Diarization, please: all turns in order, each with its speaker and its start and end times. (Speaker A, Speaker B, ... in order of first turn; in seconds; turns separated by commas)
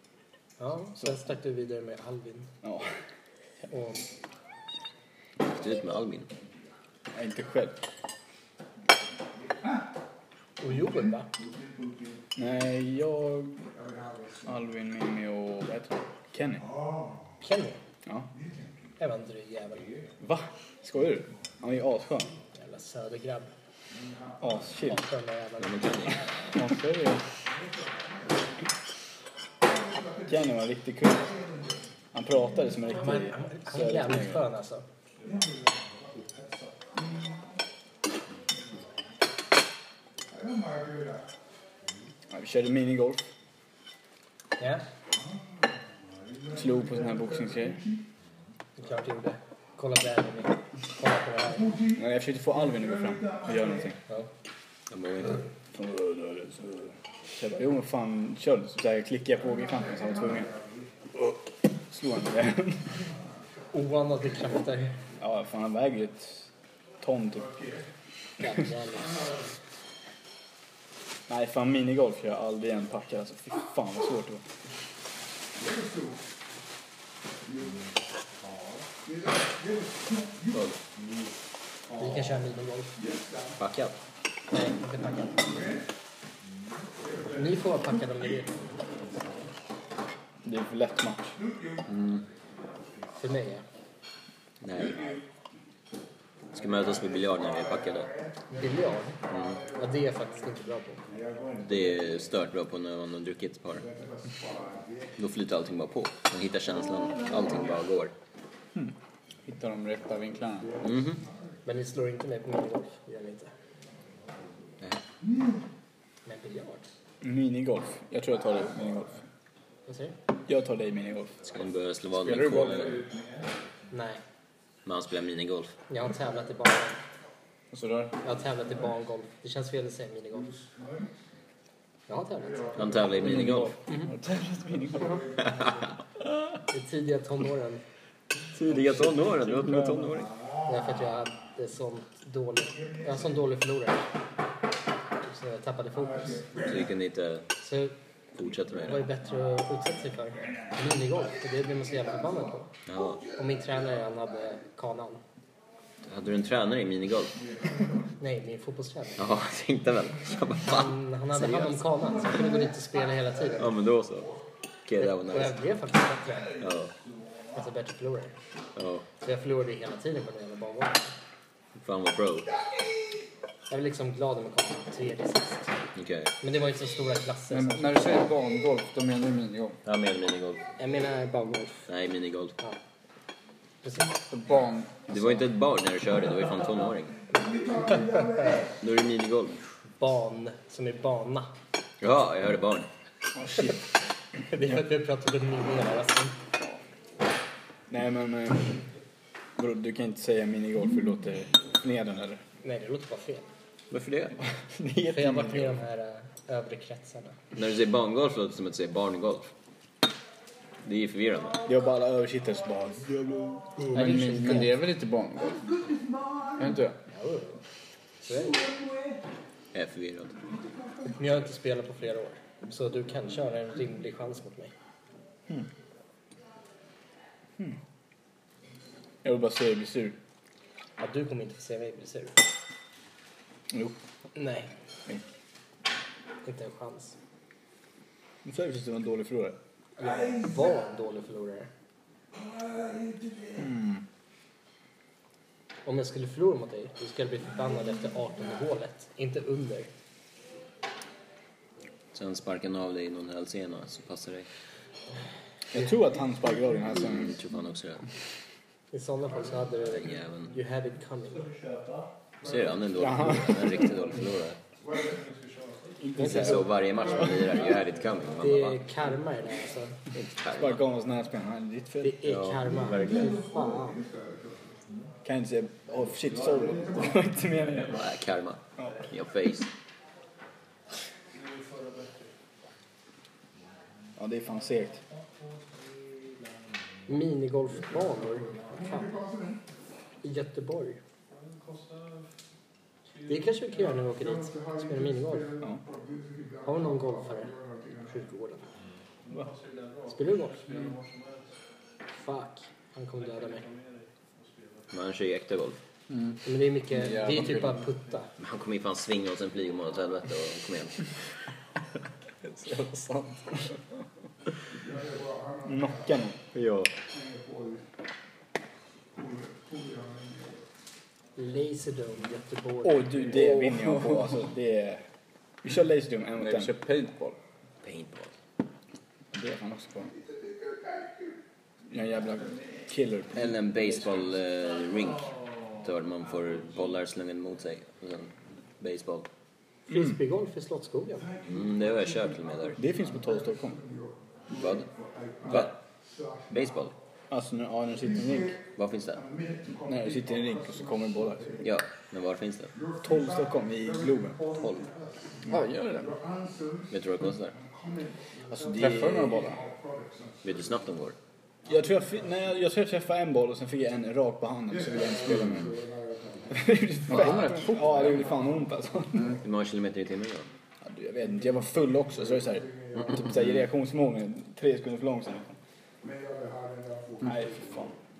Speaker A: 0.6-2.5, Speaker B: 2.6-2.9, Speaker A: 3.7-4.0, Speaker C: 5.4-6.3, Speaker B: 7.1-7.8, Speaker A: 10.6-11.3, Speaker B: 12.3-13.6, Speaker B: 14.4-16.6, Speaker A: 17.4-17.8, Speaker A: 19.0-19.9, Speaker B: 20.2-22.3, Speaker A: 22.5-23.5, Speaker B: 24.4-25.0, Speaker A: 24.9-26.2, Speaker C: 25.6-26.2, Speaker B: 26.5-27.2, Speaker B: 30.2-31.4, Speaker B: 32.1-34.4, Speaker A: 32.9-34.9, Speaker B: 42.3-43.2, Speaker A: 44.6-44.8, Speaker B: 46.5-47.8, Speaker A: 48.8-51.8, Speaker B: 51.9-54.0, Speaker C: 54.9-55.4, Speaker B: 55.7-60.5, Speaker B: 61.1-63.0, Speaker A: 63.7-65.0, Speaker B: 65.2-66.5, Speaker B: 67.0-67.5, Speaker A: 68.4-69.4, Speaker B: 71.3-74.4, Speaker C: 80.5-80.8, Speaker A: 82.0-83.0, Speaker C: 83.6-84.0, Speaker A: 84.5-85.7, Speaker A: 87.3-88.6, Speaker B: 90.4-91.4, Speaker C: 91.9-92.2, Speaker A: 93.2-93.6, Speaker C: 94.6-95.0, Speaker C: 96.5-98.1, Speaker A: 98.5-99.2, Speaker C: 99.3-99.6, Speaker A: 99.7-101.0, Speaker C: 101.6-103.9, Speaker C: 105.2-108.1, Speaker D: 109.5-110.7, Speaker C: 110.8-111.2, Speaker A: 111.6-113.5, Speaker A: 116.2-116.8, Speaker B: 117.2-119.2, Speaker A: 119.9-120.1, Speaker B: 120.5-121.5, Speaker C: 121.5-123.0, Speaker B: 122.2-122.9, Speaker A: 123.9-124.2, Speaker C: 124.8-125.8, Speaker A: 125.9-127.0, Speaker B: 127.7-128.1, Speaker A: 128.2-130.5, Speaker A: 132.1-133.0, Speaker C: 132.7-133.8, Speaker B: 133.2-135.2, Speaker A: 136.7-137.8, Speaker C: 138.5-140.3, Speaker A: 140.7-144.1, Speaker A: 145.2-146.5, Speaker C: 146.6-147.5, Speaker A: 147.6-147.9, Speaker C: 148.3-149.1, Speaker A: 148.8-152.7, Speaker C: 152.9-153.2, Speaker A: 153.3-155.2, Speaker C: 156.0-157.4, Speaker A: 158.2-159.2, Speaker C: 159.2-161.8, Speaker A: 160.6-163.7, Speaker C: 163.6-164.3, Speaker C: 164.8-165.6, Speaker A: 165.0-166.5, Speaker C: 166.6-166.9, Speaker A: 167.5-168.3, Speaker C: 168.8-169.1, Speaker A: 169.2-171.1, Speaker C: 171.8-172.5, Speaker A: 173.7-175.8, Speaker C: 175.9-176.3, Speaker A: 176.4-178.2, Speaker D: 177.5-179.8, Speaker C: 179.8-180.6, Speaker A: 180.8-181.9, Speaker C: 181.9-182.6, Speaker A: 183.8-184.2, Speaker D: 184.3-185.0, Speaker C: 185.1-187.2, Speaker A: 187.8-188.5, Speaker C: 188.8-189.6, Speaker A: 190.0-191.5, Speaker C: 192.0-192.9, Speaker B: 193.3-193.8, Speaker A: 194.5-196.4, Speaker B: 197.9-198.8, Speaker B: 199.6-202.4, Speaker A: 202.6-203.4, Speaker C: 203.9-204.4, Speaker B: 204.7-205.8, Speaker A: 205.1-207.4, Speaker C: 207.5-209.5, Speaker C: 210.8-211.6, Speaker B: 211.7-213.4, Speaker B: 213.9-214.7, Speaker A: 213.9-214.8, Speaker D: 214.2-215.6, Speaker D: 216.6-216.9, Speaker A: 217.1-217.6, Speaker A: 218.2-218.7, Speaker C: 219.7-220.3, Speaker A: 221.1-224.7, Speaker B: 229.2-230.2, Speaker A: 231.0-232.4, Speaker B: 233.7-234.0, Speaker A: 234.3-234.7, Speaker A: 236.4-237.2, Speaker B: 238.4-239.6, Speaker A: 240.0-241.7, Speaker B: 243.6-244.0, Speaker A: 245.8-249.9, Speaker C: 252.1-254.5, Speaker B: 255.7-257.4, Speaker C: 257.0-258.0, Speaker A: 258.9-261.5, Speaker C: 260.0-260.5, Speaker C: 262.4-264.6, Speaker B: 263.0-263.6, Speaker E: 264.9-266.2, Speaker B: 266.1-266.6, Speaker A: 266.2-266.6, Speaker C: 266.2-268.8, Speaker A: 268.4-270.0, Speaker C: 270.1-270.8, Speaker B: 270.5-272.2, Speaker A: 272.0-274.0, Speaker C: 272.2-273.3, Speaker B: 275.2-278.0, Speaker C: 277.7-279.7, Speaker E: 281.3-282.3, Speaker B: 284.2-285.0, Speaker A: 287.1-289.1, Speaker A: 290.2-291.0, Speaker E: 291.3-292.3, Speaker E: 293.1-294.0, Speaker A: 293.3-295.6, Speaker A: 296.6-298.6, Speaker E: 299.2-301.5, Speaker A: 300.1-300.6, Speaker A: 302.1-303.6, Speaker E: 303.1-304.9, Speaker C: 304.9-305.8, Speaker D: 306.1-306.4, Speaker A: 306.4-308.3, Speaker B: 307.3-307.5, Speaker C: 308.4-311.1, Speaker B: 312.4-313.8, Speaker B: 315.6-316.4, Speaker C: 316.5-316.9, Speaker A: 321.4-324.0, Speaker B: 322.8-325.0, Speaker D: 323.4-323.7, Speaker B: 325.6-326.7, Speaker D: 326.4-327.4, Speaker C: 327.8-328.3, Speaker B: 329.3-330.1, Speaker B: 331.9-333.6, Speaker C: 333.3-339.3, Speaker A: 339.9-341.3, Speaker C: 341.4-342.8, Speaker B: 342.8-343.9, Speaker C: 344.5-344.9, Speaker C: 345.4-345.8, Speaker C: 346.5-346.9, Speaker B: 347.3-348.6, Speaker C: 348.8-349.2, Speaker B: 349.9-351.6, Speaker C: 351.6-352.7, Speaker B: 353.0-354.4, Speaker C: 354.6-354.9, Speaker D: 355.5-355.9, Speaker B: 355.5-356.1, Speaker C: 356.9-357.6, Speaker B: 358.5-359.6, Speaker D: 358.6-359.6, Speaker C: 360.4-361.1, Speaker B: 361.7-365.8, Speaker B: 366.5-369.4, Speaker D: 367.1-368.2, Speaker C: 369.3-370.5, Speaker B: 370.8-375.6, Speaker B: 377.2-377.9